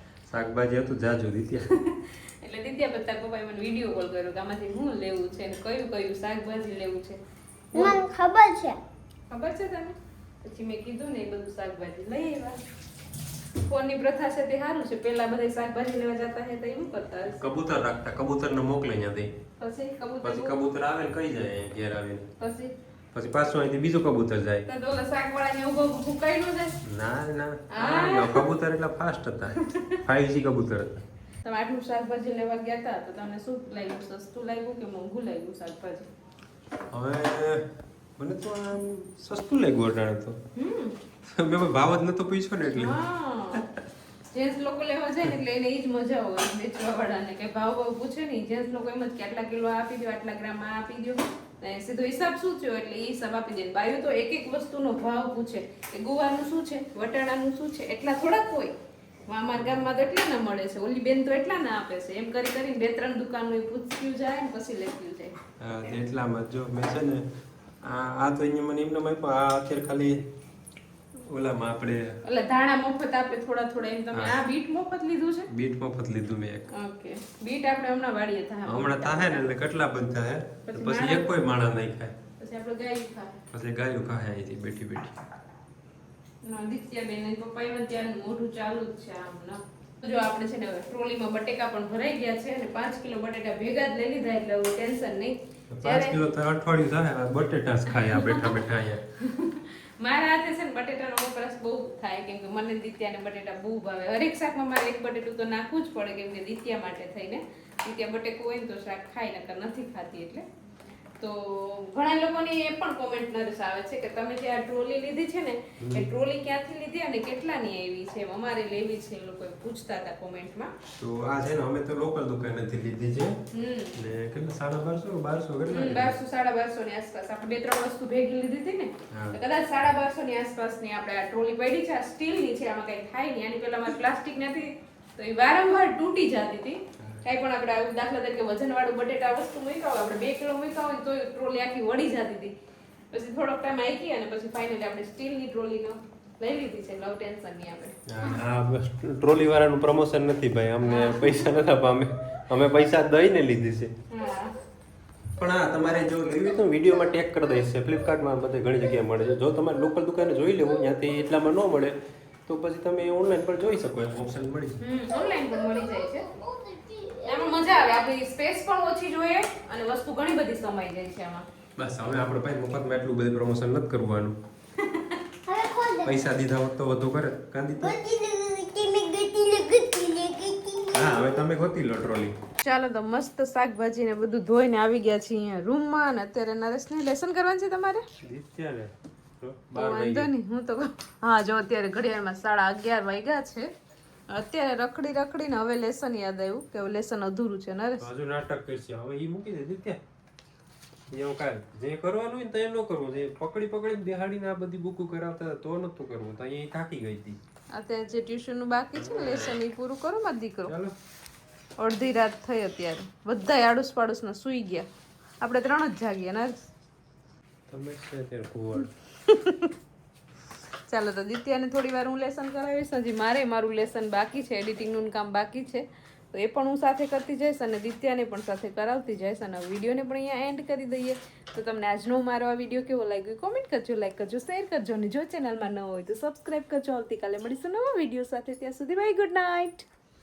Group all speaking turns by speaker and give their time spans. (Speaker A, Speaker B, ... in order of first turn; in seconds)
Speaker A: 0.3-1.7, 17.3-19.3, 20.2-22.3, 23.1-24.7, 26.8-31.0, 36.9-40.4, 41.2-43.0, 59.6-59.9, 65.6-67.3, 67.8-70.2, 71.2-72.2, 74.1-74.4, 75.5-76.7, 78.7-82.1, 83.5-85.1, 95.7-99.0, 115.8-116.1, 121.0-123.4, 124.0-126.2, 129.1-129.4, 148.1-153.9, 155.4-164.8, 171.8-174.4, 176.0-178.0, 180.9-182.3, 188.2-190.3, 198.0-200.0, 201.1-207.4, 209.0-209.6, 210.7-210.9, 217.7-218.9
Speaker B: 2.0-7.2, 7.7-8.0, 9.3-12.6, 13.7-17.5, 19.6-20.6, 22.4-22.7, 24.7-26.8, 27.7-28.4, 29.7-30.0, 31.4-36.1, 40.5-41.0, 42.7-43.7, 44.3-58.8, 59.3-65.3, 72.2-75.5, 76.7-79.5, 80.7-81.3, 82.4-83.4, 86.4-96.2, 97.9-98.5, 99.2-110.5, 111.2-120.7, 123.5-124.0, 125.7-142.5, 143.1-148.0, 150.8-151.4, 154.1-154.6, 164.8-166.3, 167.2-171.5, 174.8-175.2, 182.6-188.1, 189.8-193.7, 194.3-198.1, 207.7-210.7, 211.8-214.9, 215.4-216.7, 219.2-219.7, 220.9-239.8
Speaker C: 7.8-8.8, 165.1-168.0, 175.5-176.3, 177.8-181.4